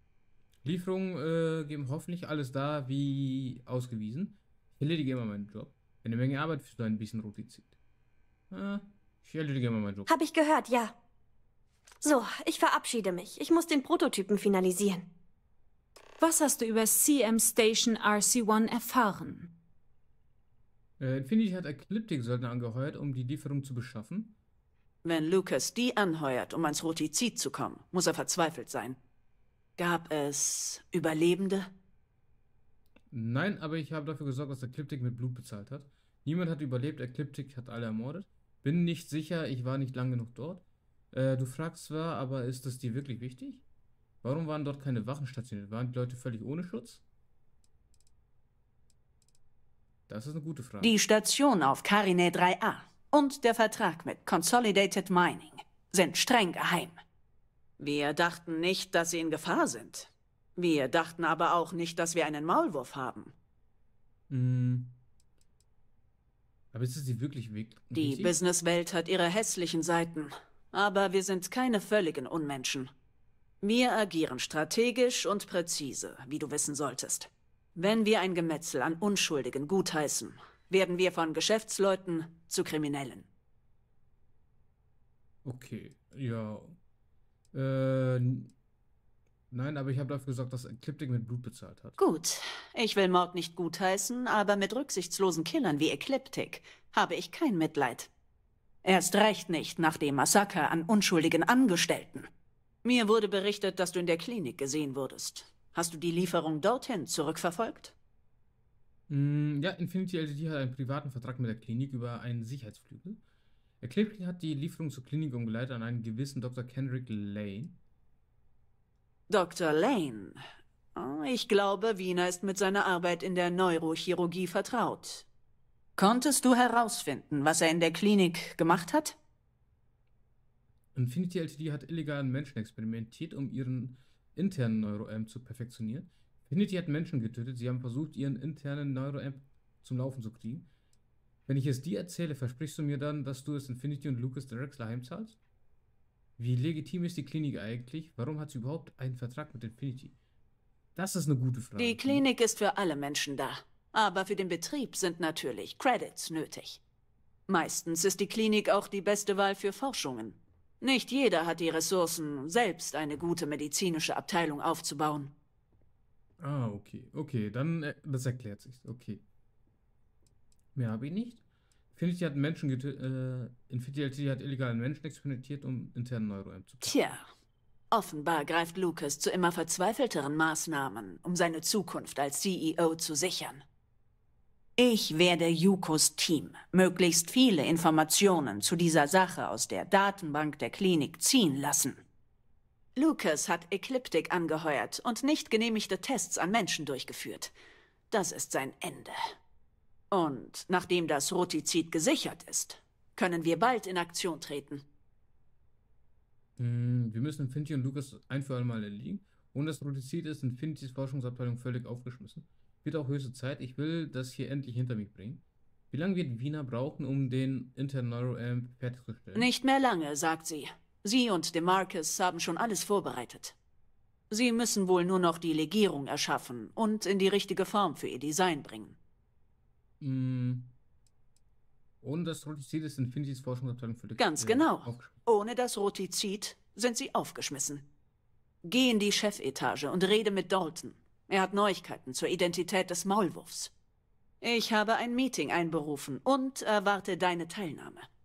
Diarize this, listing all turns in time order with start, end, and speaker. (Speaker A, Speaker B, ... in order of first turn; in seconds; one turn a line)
Speaker A: 0.6-7.8
Speaker A: 8.5-10.1
Speaker B: 10.1-11.0
Speaker B: 12.0-15.1
Speaker C: 16.2-19.5
Speaker A: 21.0-24.3
Speaker D: 25.0-29.0
Speaker D: 29.8-31.7
Speaker A: 33.1-43.6
Speaker A: 44.2-47.0
Speaker A: 50.1-50.9
Speaker D: 50.8-57.0
Speaker D: 57.8-63.3
Speaker A: 64.3-65.0
Speaker A: 66.7-68.3
Speaker D: 68.0-72.9
Speaker D: 73.6-83.3
Speaker A: 85.4-86.8
Speaker A: 87.5-88.5
Speaker A: 89.5-92.0
Speaker D: 92.0-98.1
Speaker D: 98.8-102.3
Speaker D: 102.8-107.9
Speaker A: 109.1-113.2
Speaker A: 113.8-117.8
Speaker D: 119.3-120.4
Speaker D: 121.0-125.3
Speaker D: 126.0-129.2
Speaker A: 130.9-140.7
Speaker A: 141.5-145.4
Speaker A: 146.4-150.2
Speaker A: 150.9-152.2
Speaker D: 151.8-156.8
Speaker D: 157.5-165.3
Speaker A: 166.4-169.2
Speaker A: 170.8-171.4
Speaker A: 171.9-177.0
Speaker D: 176.8-177.3
Speaker D: 177.9-183.6
Speaker D: 184.8-192.0
Speaker D: 193.0-197.5
Speaker D: 198.1-199.2
Speaker D: 200.1-204.8
Speaker A: 206.6-219.5
Speaker D: 219.3-223.6
Speaker D: 224.3-229.0
Speaker A: 230.0-230.7
Speaker A: 232.0-235.2
Speaker D: 234.2-237.8
Speaker D: 238.7-243.7
Speaker D: 244.4-248.1